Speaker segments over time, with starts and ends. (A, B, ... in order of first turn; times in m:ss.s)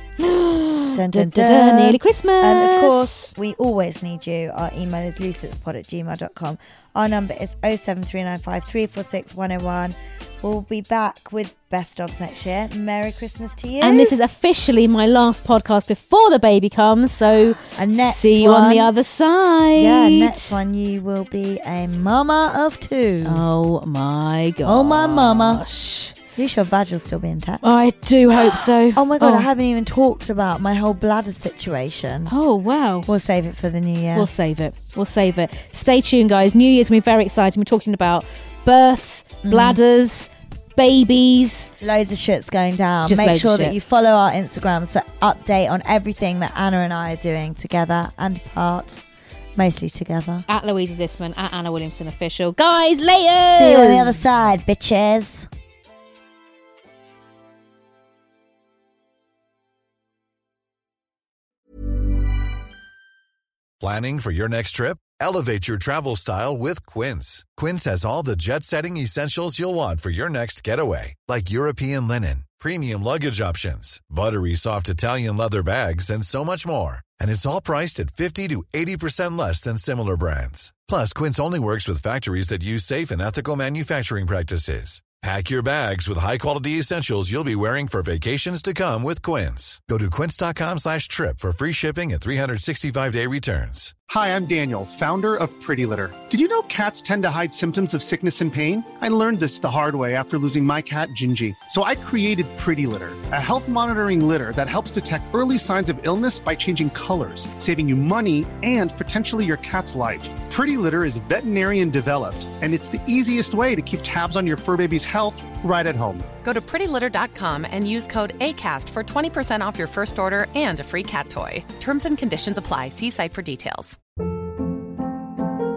0:00.2-0:03.3 A
0:00.9-0:14.2 B
0:13.8-0:20.6 A
0:17.8-0:18.9 B
0:19.8-0:23.4 B
0:23.2-0:26.2 A
0:24.6-0:25.6 B
0:26.4-0:27.7 B
0:27.6-0:29.5 A
0:28.3-0:32.3 B
0:32.3-0:33.1 A
0:33.0-0:34.3 B
0:34.1-0:41.7 A
0:39.4-0:39.8 B
0:41.8-0:49.0 B
0:43.1-0:43.8 A
0:49.6-0:50.5 B
0:50.5-0:54.2 A
0:53.6-0:55.5 B
1:03.8-1:33.9 C
1:34.1-1:56.4 D
1:56.4-2:04.0 E